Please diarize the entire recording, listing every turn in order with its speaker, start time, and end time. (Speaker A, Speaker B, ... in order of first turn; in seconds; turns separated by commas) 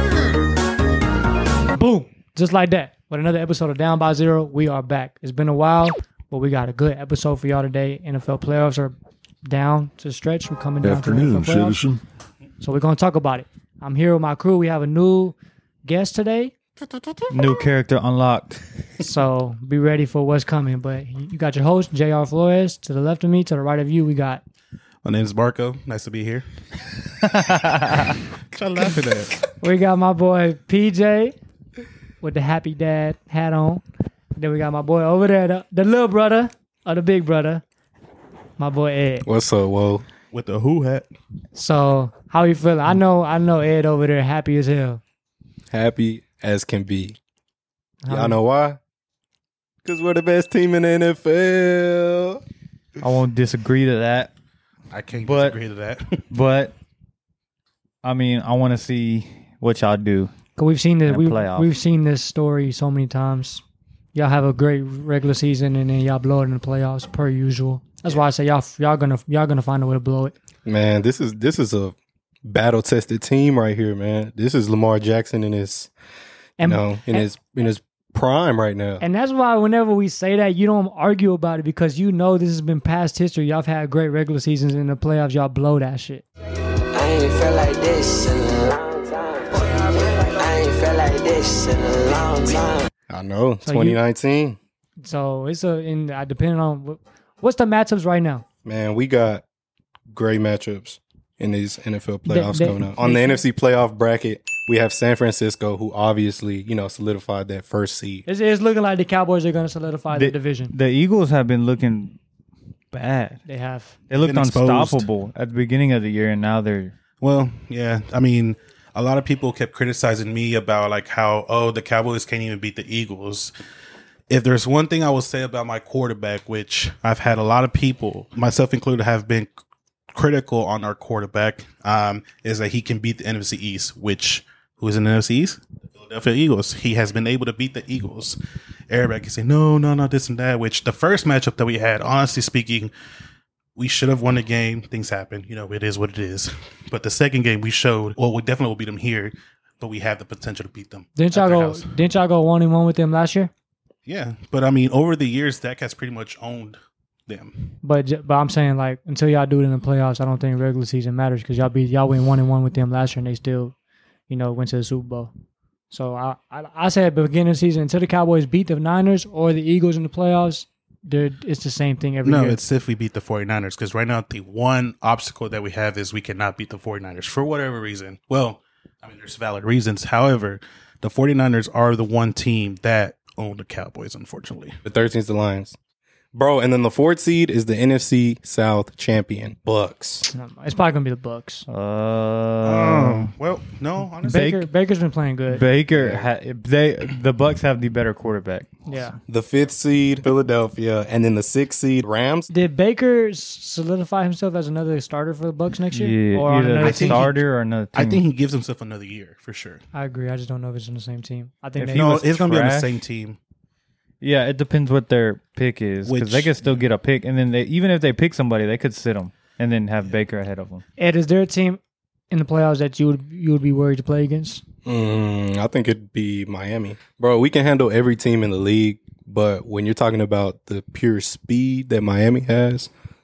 Speaker A: 1.7-8.9, Speaker A: 9.4-12.0, Speaker A: 12.6-16.5, Speaker B: 17.3-18.6, Speaker A: 19.0-24.4, Speaker C: 25.0-26.4, Speaker B: 27.2-28.2, Speaker C: 28.5-29.4, Speaker A: 29.6-31.3, Speaker A: 32.2-33.8, Speaker A: 34.4-37.6, Speaker A: 38.6-39.3, Speaker D: 39.2-40.0, Speaker C: 40.3-41.1, Speaker A: 41.5-45.0, Speaker D: 45.7-47.2, Speaker A: 48.0-48.4, Speaker D: 48.1-48.8, Speaker D: 49.8-52.4, Speaker B: 53.0-54.3, Speaker C: 54.9-56.2, Speaker B: 55.2-55.6, Speaker B: 56.3-56.7, Speaker B: 58.0-60.3, Speaker A: 60.6-63.6, Speaker B: 61.0-61.7, Speaker A: 64.1-70.3, Speaker D: 70.7-75.9, Speaker A: 76.6-77.3, Speaker D: 76.6-79.0, Speaker A: 79.0-86.3, Speaker E: 86.9-92.9, Speaker D: 93.1-94.6, Speaker A: 93.7-94.0, Speaker A: 95.0-98.5, Speaker D: 98.7-99.4, Speaker D: 100.1-108.2, Speaker A: 102.3-103.4, Speaker A: 108.3-110.7, Speaker B: 110.1-112.2, Speaker B: 112.9-113.4, Speaker A: 113.5-114.0, Speaker B: 114.1-116.9, Speaker C: 114.2-115.1, Speaker C: 117.2-123.5, Speaker C: 124.3-129.5, Speaker C: 130.1-138.4, Speaker C: 138.9-142.9, Speaker C: 143.8-151.9, Speaker A: 151.2-153.5, Speaker C: 154.1-157.7, Speaker A: 157.8-163.7, Speaker A: 164.3-165.3, Speaker A: 165.9-172.6, Speaker C: 172.2-184.8, Speaker D: 184.8-185.8, Speaker D: 186.3-190.3, Speaker A: 190.3-191.6, Speaker B: 191.7-193.3, Speaker C: 192.6-194.4, Speaker A: 194.2-195.6, Speaker B: 194.2-194.7, Speaker B: 195.5-198.8, Speaker D: 195.9-196.3, Speaker A: 198.8-199.2, Speaker D: 199.3-202.5, Speaker A: 202.5-207.3, Speaker B: 205.9-208.2, Speaker C: 206.8-207.4, Speaker C: 207.9-209.8, Speaker A: 209.9-212.2, Speaker B: 211.8-213.0, Speaker C: 211.9-213.4, Speaker B: 214.2-220.8, Speaker C: 216.1-216.8, Speaker A: 221.0-221.8, Speaker A: 222.3-224.6, Speaker D: 224.8-232.9